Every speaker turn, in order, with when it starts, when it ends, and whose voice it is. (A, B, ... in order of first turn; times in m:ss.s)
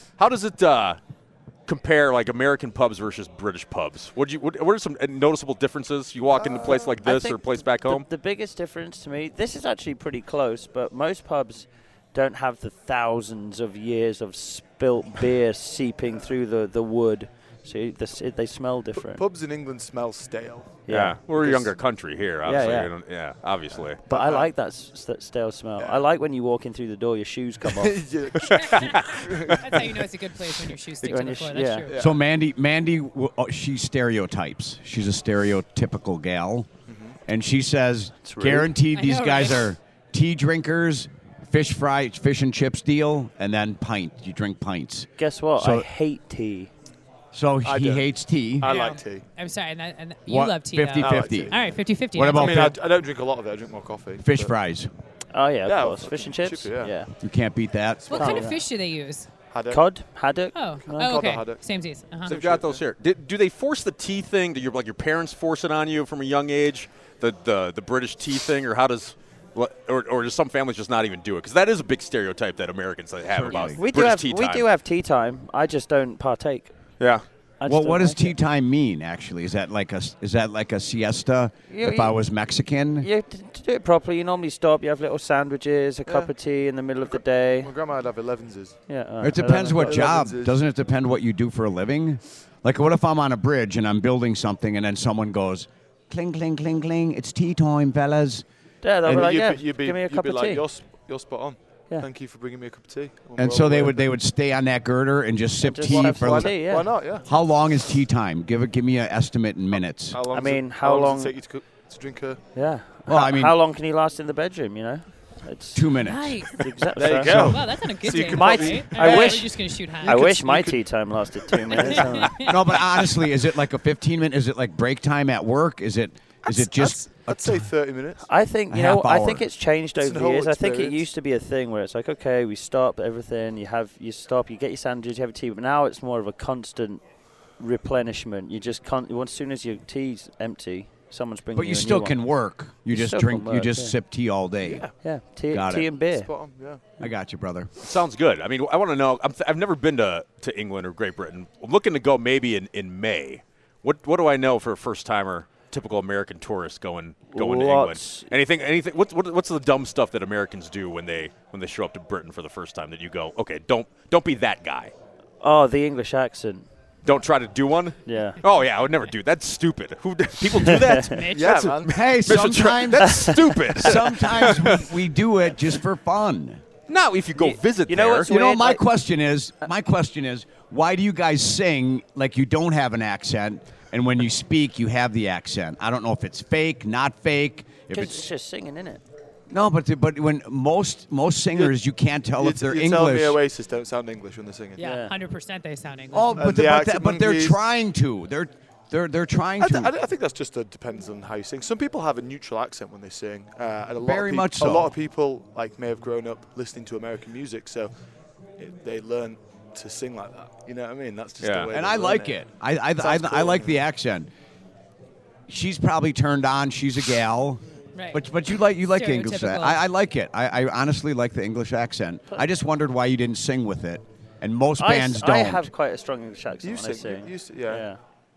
0:00.2-0:01.0 A
0:01.7-0:08.1 A
0:06.3-0:07.0 B
0:06.6-0:19.2 C
0:19.0-0:21.8 B
0:20.9-0:21.2 C
0:20.9-0:24.0 A
0:22.4-0:22.9 C
0:24.0-0:24.5 B
0:24.1-0:28.0 C
0:25.8-0:26.0 B
0:27.6-0:30.0 B
0:28.5-0:29.0 A
0:28.5-0:31.9 D
0:31.0-0:31.9 C
0:31.1-0:31.3 A
0:31.9-0:32.2 B
0:32.0-0:36.7 E
0:36.9-0:37.2 B
0:37.3-0:45.9 E
0:38.2-0:38.7 C
0:38.9-0:39.7 D
0:45.2-0:46.7 C
0:47.3-0:48.7 E
0:47.6-0:48.1 B
0:48.6-0:49.3 B
0:48.7-0:52.7 D
0:50.3-0:52.8 E
0:51.0-0:51.8 B
0:52.3-0:54.5 B
0:54.2-0:54.9 E
0:55.3-0:57.1 C
0:55.7-0:56.9 B
0:57.2-0:58.3 E
0:58.0-0:58.6 B
0:58.1-0:59.3 D
0:58.2-0:58.6 C
0:59.5-0:59.8 B
0:59.7-1:01.1 C
1:00.5-1:02.3 D
1:00.9-1:01.7 B
1:02.2-1:02.8 B
1:02.2-1:14.6 A
1:13.3-1:13.8 E
1:13.5-1:16.7 C
1:17.0-1:17.2 A
1:17.6-1:18.4 C
1:17.6-1:23.1 E
1:21.7-1:22.2 C
1:23.0-1:27.7 C
1:26.0-1:26.3 B
1:27.0-1:28.8 B
1:28.9-1:30.1 C
1:29.2-1:38.4 E
1:29.4-1:30.6 B
1:38.8-1:40.6 C
1:39.0-1:44.1 B
1:43.4-1:50.2 E
1:45.6-1:46.9 C
1:45.8-1:47.2 B
1:50.1-1:52.4 B
1:50.3-1:51.4 C
1:52.6-1:57.6 C
1:53.1-1:53.6 E
1:55.7-1:56.5 E
1:56.1-2:00.2 D
1:57.0-2:02.2 B
1:58.2-2:02.4 C
1:59.1-1:59.3 E
2:01.7-2:02.6 D
2:02.4-2:07.7 E
2:06.4-2:08.2 B
2:08.2-2:17.0 C
2:08.7-2:09.5 E
2:10.0-2:11.0 B
2:17.6-2:22.3 C
2:21.5-2:24.9 E
2:22.9-2:24.0 C
2:24.6-2:25.0 B
2:25.0-2:26.3 C
2:25.5-2:25.9 E
2:26.1-2:26.9 B
2:27.0-2:27.7 E
2:27.8-2:44.9 A
2:37.3-2:38.3 C
2:45.4-2:46.7 C
2:47.0-2:54.9 A
2:48.1-2:48.4 C
2:50.6-2:51.0 C
2:51.1-2:51.5 D
2:51.3-2:52.0 B
2:51.8-2:56.6 E
2:53.0-2:53.8 C
2:56.9-2:58.3 A
2:57.3-2:58.9 C
2:58.3-3:08.3 E
3:07.9-3:09.0 C
3:09.5-3:13.4 E
3:12.4-3:14.9 B
3:14.8-3:16.4 D
3:14.8-3:15.1 C
3:16.1-3:19.9 E
3:16.4-3:17.6 B
3:19.6-3:27.9 B
3:24.0-3:24.9 E
3:28.6-3:32.4 B
3:31.4-3:31.7 A
3:31.7-3:34.3 E
3:33.0-3:33.8 B
3:35.5-3:45.7 E
3:38.0-3:38.2 D
3:38.9-3:39.8 D
3:44.8-3:48.0 C
3:46.6-3:47.9 B